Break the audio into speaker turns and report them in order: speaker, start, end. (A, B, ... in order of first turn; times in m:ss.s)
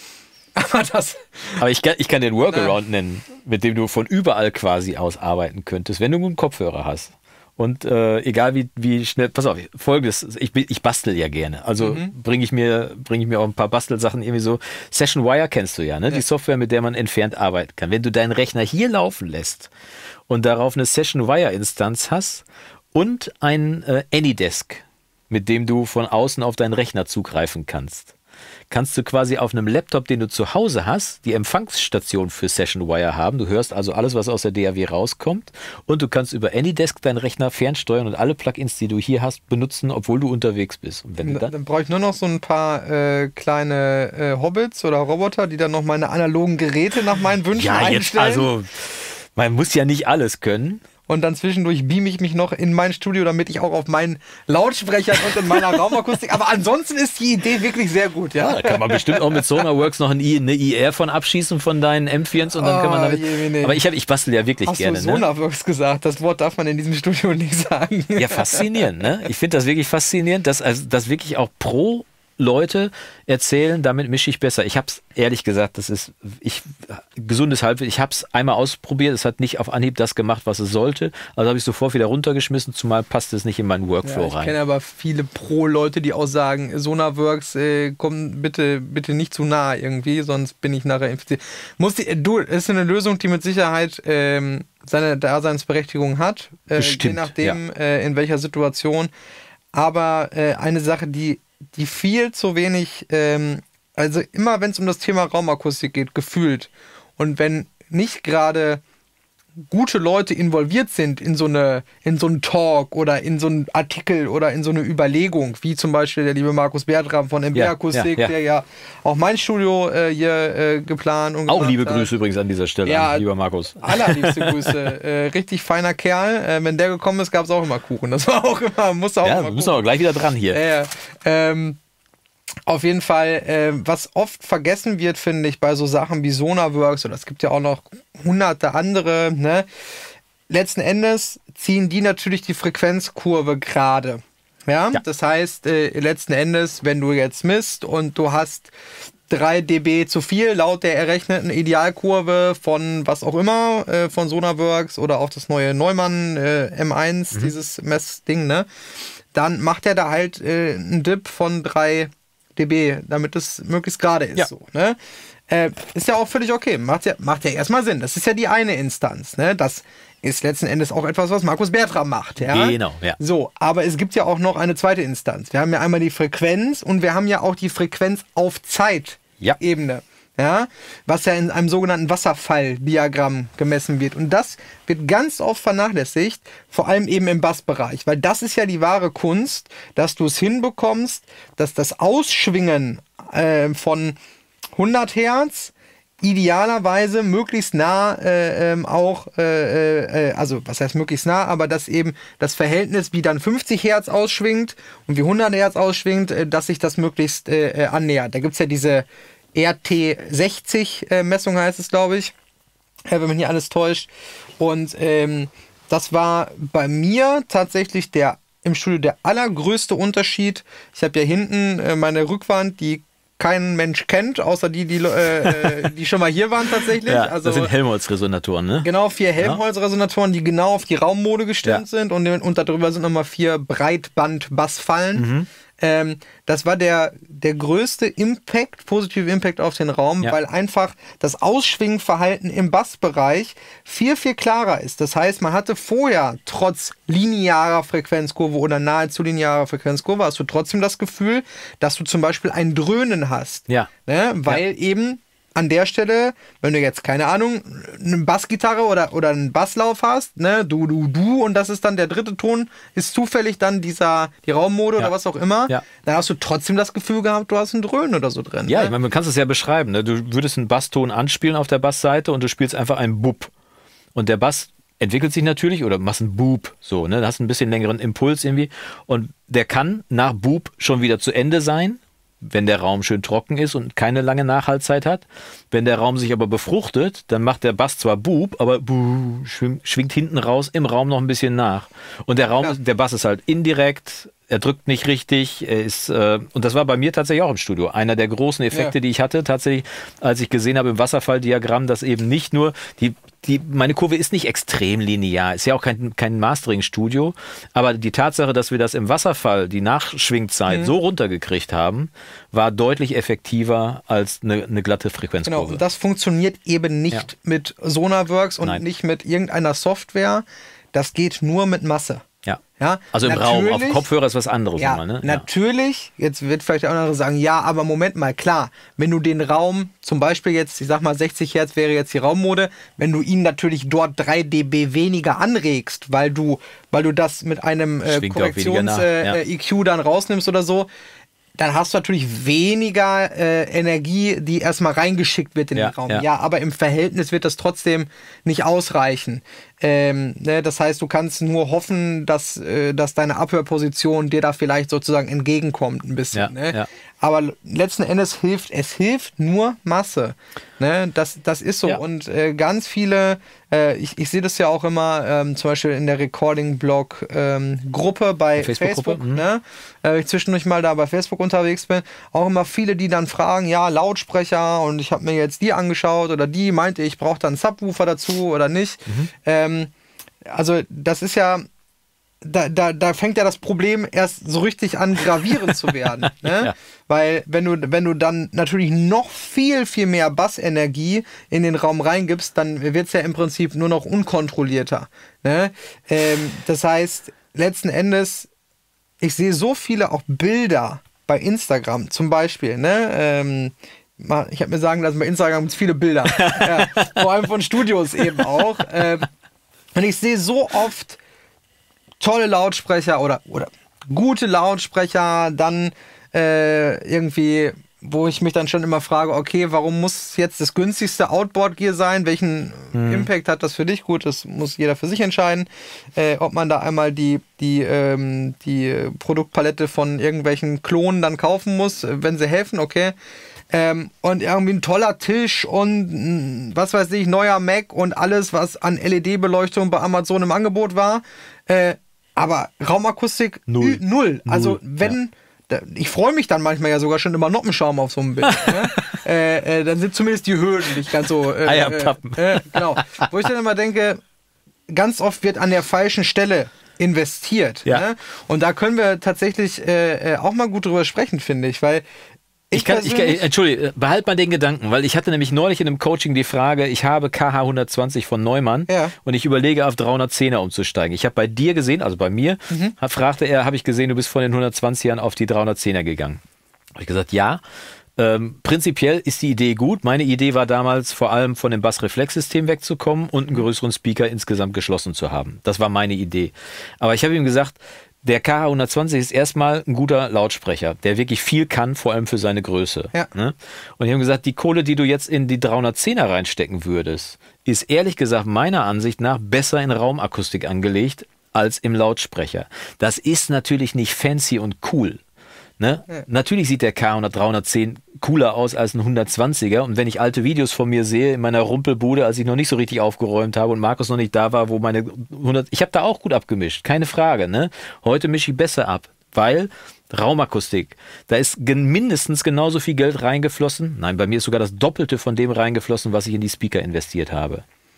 0:00.6-0:01.6 A
0:01.6-0:19.7 B
0:02.5-0:02.8 A
0:11.8-0:12.1 A
0:20.3-0:28.1 B
0:28.7-0:41.5 B
0:41.2-0:48.5 A
0:47.5-0:50.8 B
0:51.1-0:59.4 A
0:58.4-1:05.2 B
1:02.4-1:03.8 A
1:04.7-1:08.8 A
1:08.2-1:24.5 B
1:24.0-1:39.1 A
1:36.7-1:37.6 B
1:39.7-1:48.8 A
1:49.6-2:02.1 A
1:57.5-1:58.3 B
2:01.5-2:04.8 B
2:02.8-2:03.2 A
2:03.8-2:09.8 A
2:09.2-2:10.6 B
2:10.5-2:11.8 A
2:12.6-2:19.6 A
2:20.5-2:28.7 A
2:29.3-2:38.7 A
2:39.3-2:45.0 A
2:45.5-3:14.2 A
2:52.5-2:53.2 B
3:14.7-3:32.3 A
3:33.1-3:47.7 A
3:47.0-3:49.6 B
3:48.8-3:55.3 A
3:55.1-3:55.5 B
3:55.8-4:28.9 A
4:28.7-4:33.5 B
4:34.1-5:15.8 B
5:15.4-5:22.2 A
5:22.8-5:24.0 A
5:23.1-5:25.4 B
5:24.8-5:40.9 A
5:38.0-5:39.4 B
5:41.6-6:19.9 A
5:45.7-5:46.2 B
5:56.3-5:56.9 B
6:08.6-6:09.4 B
6:20.4-6:21.6 A
6:22.4-6:38.5 A
6:26.3-6:26.7 B
6:39.2-6:49.3 A
6:46.3-6:47.2 B
6:49.9-6:51.2 A
6:52.2-7:13.1 A
7:02.9-7:03.3 B
7:13.7-7:34.2 A
7:23.7-7:25.2 B
7:28.4-7:29.2 B
7:31.6-7:33.3 B
7:34.9-7:42.0 A
7:42.7-7:43.4 A
7:42.7-7:56.4 B
7:48.9-7:49.1 A
7:57.0-7:57.6 B
7:58.2-8:25.2 B
8:25.8-8:47.6 B